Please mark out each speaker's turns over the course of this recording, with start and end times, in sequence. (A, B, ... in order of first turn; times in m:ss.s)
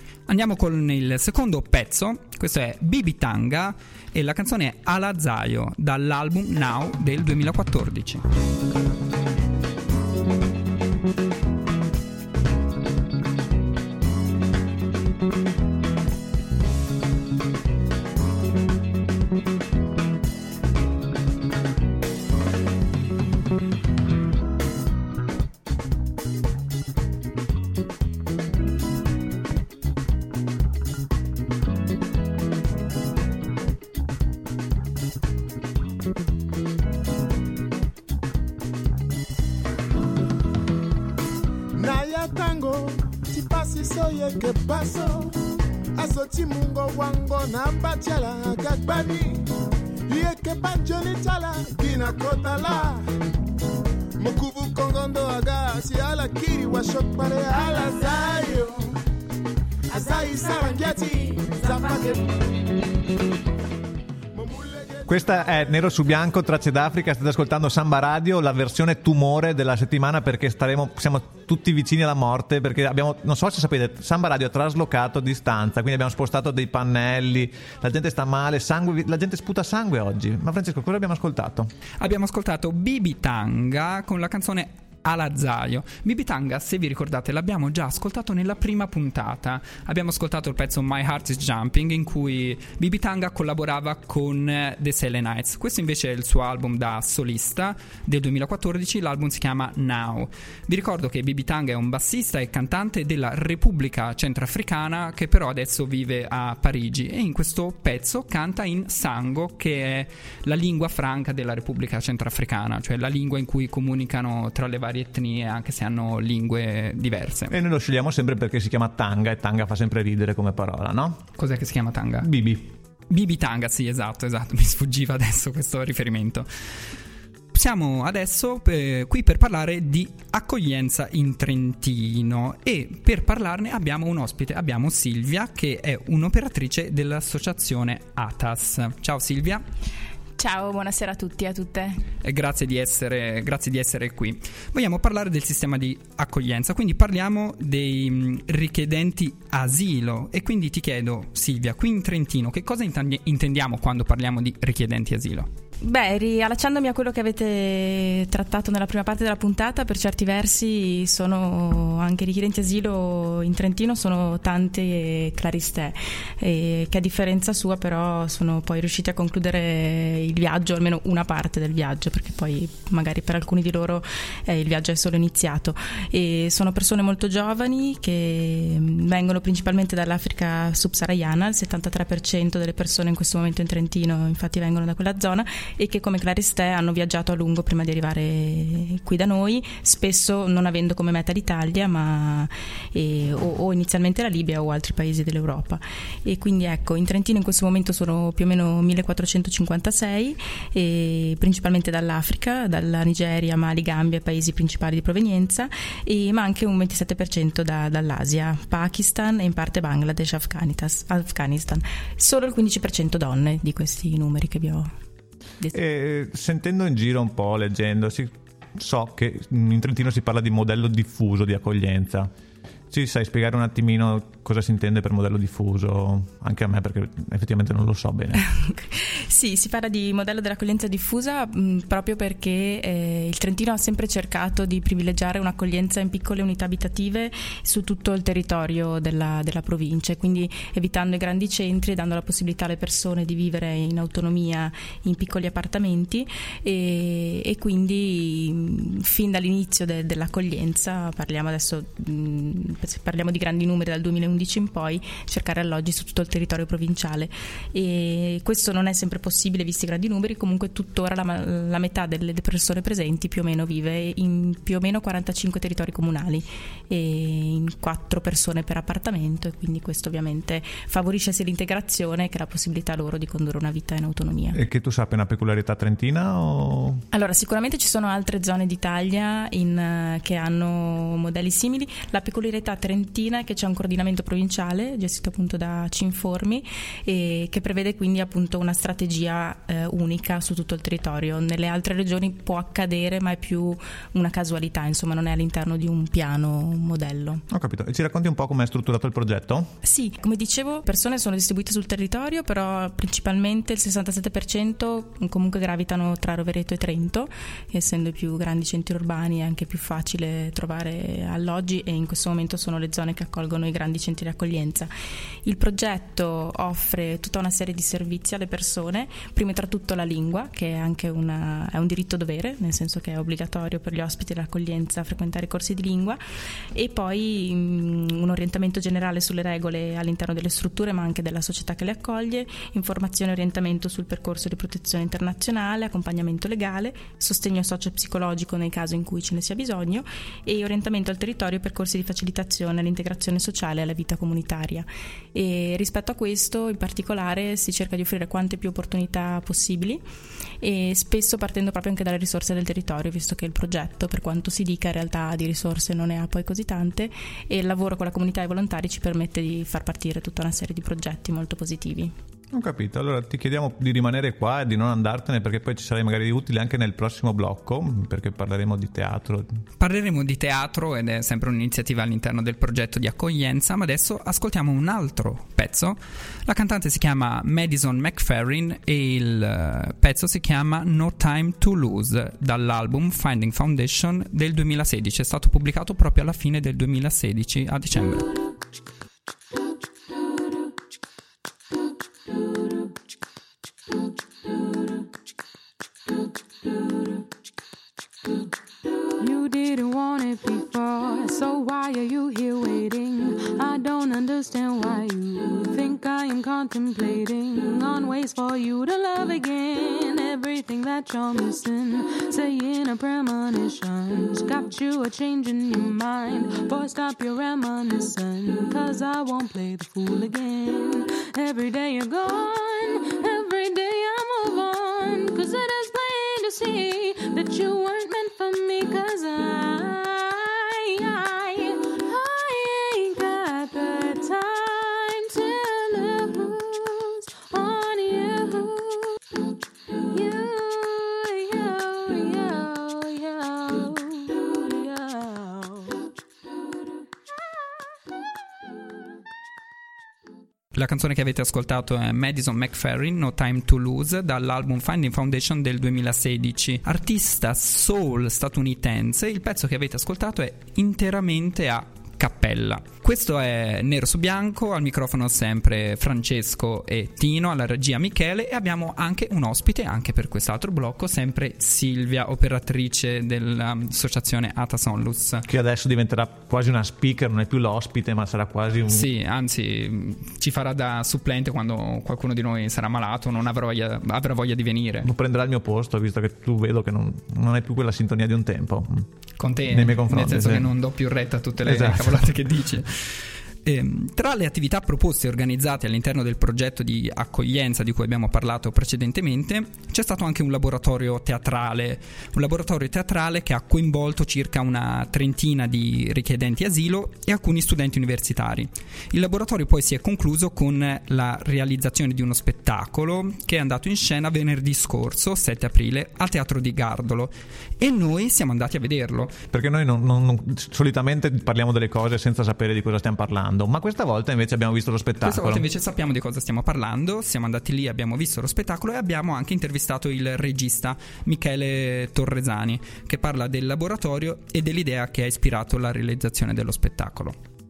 0:00.3-0:08.3 A
0:41.7-0:45.4 B
0:46.0-0:49.4 B
0:50.1-0:53.0 B
0:54.2-0:59.0 B
0:59.9-1:02.3 B
1:04.3-1:05.9 B
1:05.1-1:21.7 C
1:22.0-1:57.5 A
1:57.5-2:01.2 C
2:01.4-2:02.3 A
2:02.2-2:02.7 C
2:03.1-2:06.5 A
2:07.5-2:19.6 A
2:20.4-2:22.0 D
2:22.2-2:35.5 A
2:35.8-3:34.9 D
3:35.7-3:42.3 C
3:42.9-3:48.4 C
3:48.4-4:34.6 D
4:34.5-4:37.0 C
4:37.1-4:57.4 D
4:57.5-4:59.7 C
4:59.8-5:14.9 D
5:15.4-5:26.2 D
5:26.7-5:50.0 D
5:50.6-6:02.1 D
6:02.5-6:09.6 C
6:09.8-6:28.3 A
6:39.2-7:19.4 E
7:20.1-7:26.0 E
7:30.7-7:55.4 A
7:55.4-7:59.1 C
7:58.9-8:05.1 A
8:05.0-8:09.1 C
8:09.4-8:39.4 A
8:09.7-8:10.7 C
8:11.6-8:12.2 C
8:39.5-8:45.6 C
8:45.2-8:57.4 A